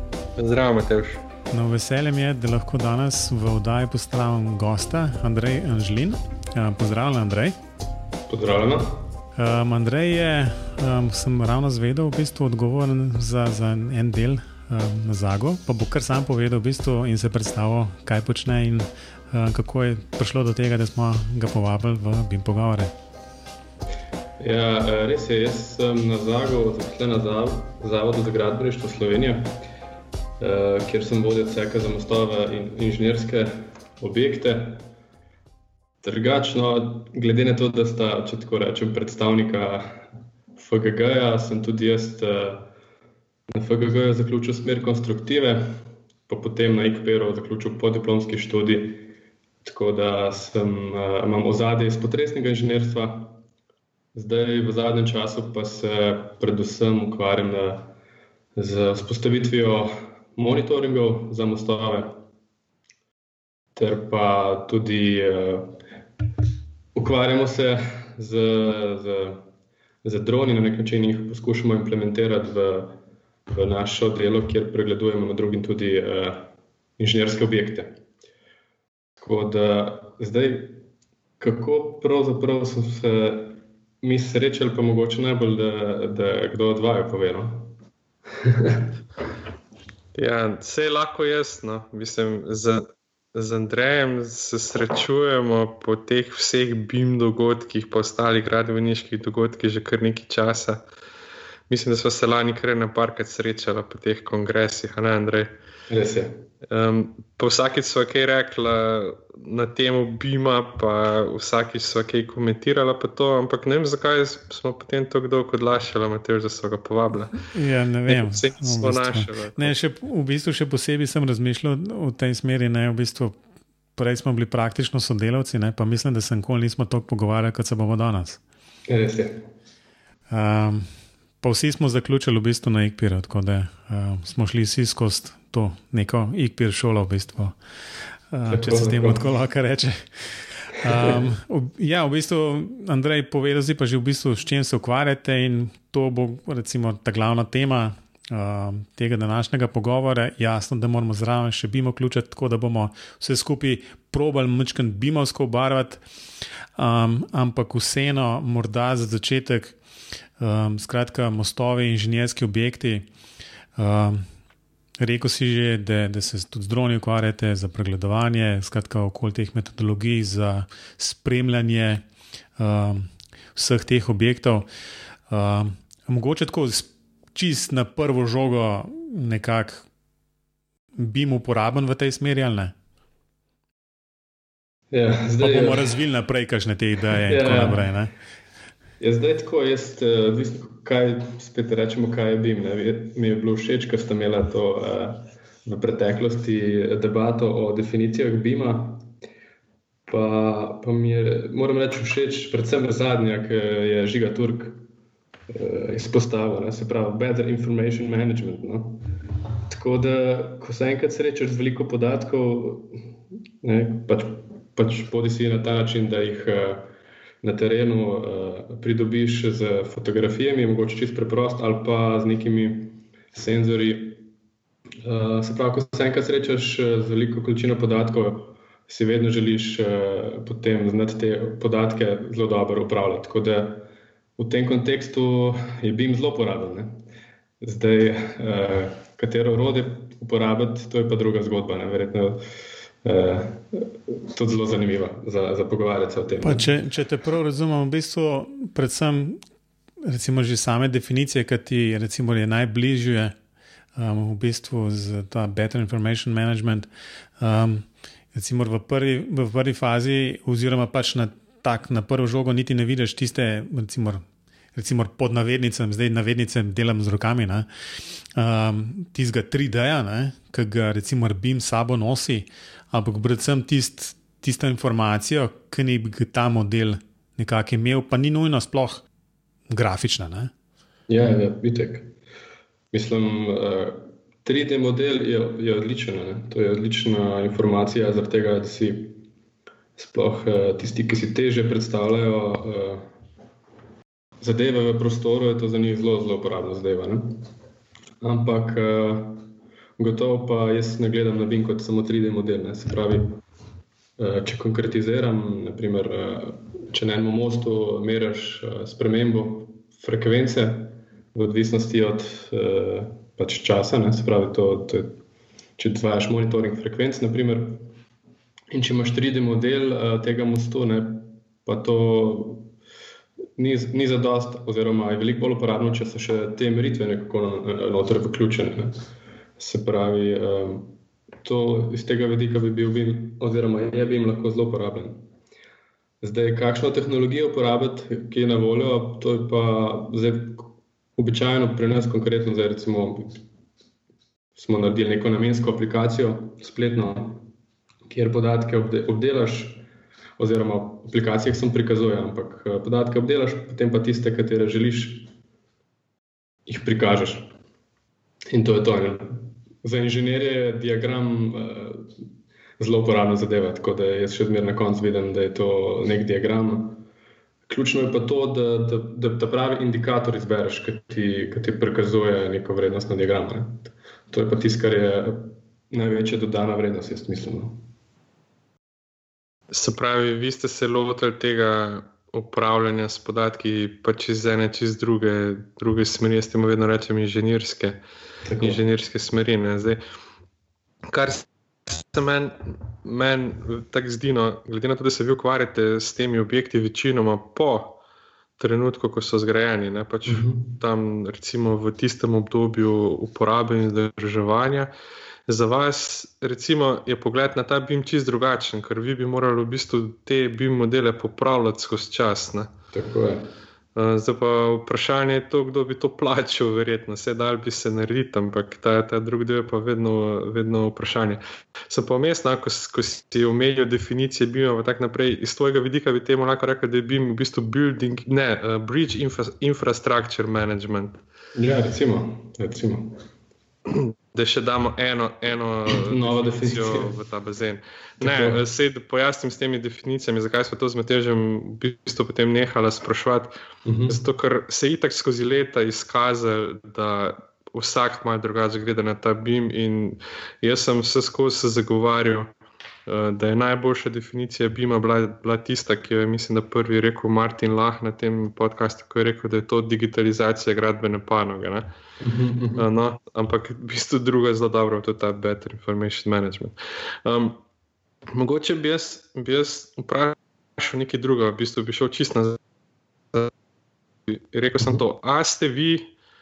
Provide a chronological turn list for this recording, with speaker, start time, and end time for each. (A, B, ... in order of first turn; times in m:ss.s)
0:00.4-0:01.2 A
0:01.5-0:07.6 B
0:08.3-0:09.0 C
0:09.4-0:22.9 B
0:24.4-0:29.6 C
0:30.4-0:34.8 C
0:36.0-0:40.0 C
0:40.6-0:42.7 C
0:43.5-0:45.6 C
0:46.3-0:49.1 C
0:49.6-0:53.4 C
0:54.1-0:57.9 C
0:58.6-1:02.2 C
1:03.8-1:05.8 C
1:07.0-1:09.4 C
1:10.0-1:12.9 C
1:13.5-1:17.9 C
1:19.2-1:20.8 C
1:21.4-1:27.7 C
1:28.4-1:28.9 C
1:30.1-1:40.8 A
1:41.7-1:45.5 A
1:45.9-1:46.4 C
1:46.7-1:57.5 A
1:57.5-2:03.4 B
1:58.1-1:59.7 A
2:04.0-2:08.4 B
2:08.9-2:09.4 C
2:10.3-2:10.9 B
2:11.4-2:17.6 B
2:18.3-2:36.0 B
2:18.5-2:19.2 C
2:36.8-2:39.8 B
2:40.4-2:43.1 B
2:43.8-2:44.2 B
2:45.0-2:52.0 B
2:52.6-2:54.7 B
2:55.3-2:59.8 B
3:01.0-3:02.7 B
3:04.9-3:05.9 C
3:05.4-3:08.1 B
3:07.2-3:07.9 C
3:09.0-3:19.0 C
3:20.1-3:24.8 C
3:25.5-3:29.0 C
3:29.7-3:32.9 C
3:33.6-3:36.9 C
3:37.4-3:44.2 C
3:45.0-3:56.9 C
3:57.6-4:02.4 C
4:03.0-4:06.7 C
4:06.4-4:09.4 B
4:10.0-4:13.4 B
4:14.0-4:16.9 B
4:17.4-4:27.7 B
4:28.3-4:39.0 B
4:39.7-4:40.5 B
4:41.1-4:42.1 C
4:42.9-4:49.2 C
4:50.0-4:53.0 C
4:54.4-4:57.4 C
4:58.2-4:59.4 C
5:00.0-5:03.4 C
5:04.2-5:15.2 C
5:15.8-5:17.8 C
5:18.7-5:22.7 C
5:23.6-5:29.0 C
5:29.6-5:30.9 C
5:31.4-5:35.2 C
5:36.2-5:43.4 C
5:44.6-5:47.4 C
5:48.1-5:49.8 C
5:50.4-5:55.3 C
5:56.7-5:57.5 C
5:58.5-6:02.1 C
6:02.8-6:07.0 C
6:07.7-6:17.8 C
6:19.7-6:28.0 A
6:28.4-6:28.8 C
6:28.6-6:30.0 A
6:31.1-6:38.0 A
6:38.6-6:44.9 A
6:40.3-6:40.7 C
6:45.5-6:52.7 A
6:52.9-6:53.5 C
6:54.0-7:11.2 A
7:11.6-7:13.2 C
7:13.9-7:23.5 A
7:15.9-7:17.1 C
7:18.2-7:18.6 C
7:23.8-7:24.2 C
7:24.1-7:32.5 A
7:33.1-7:41.9 A
7:42.2-7:42.8 C
7:42.8-7:47.6 A
7:48.3-7:52.6 A
7:54.3-7:56.1 A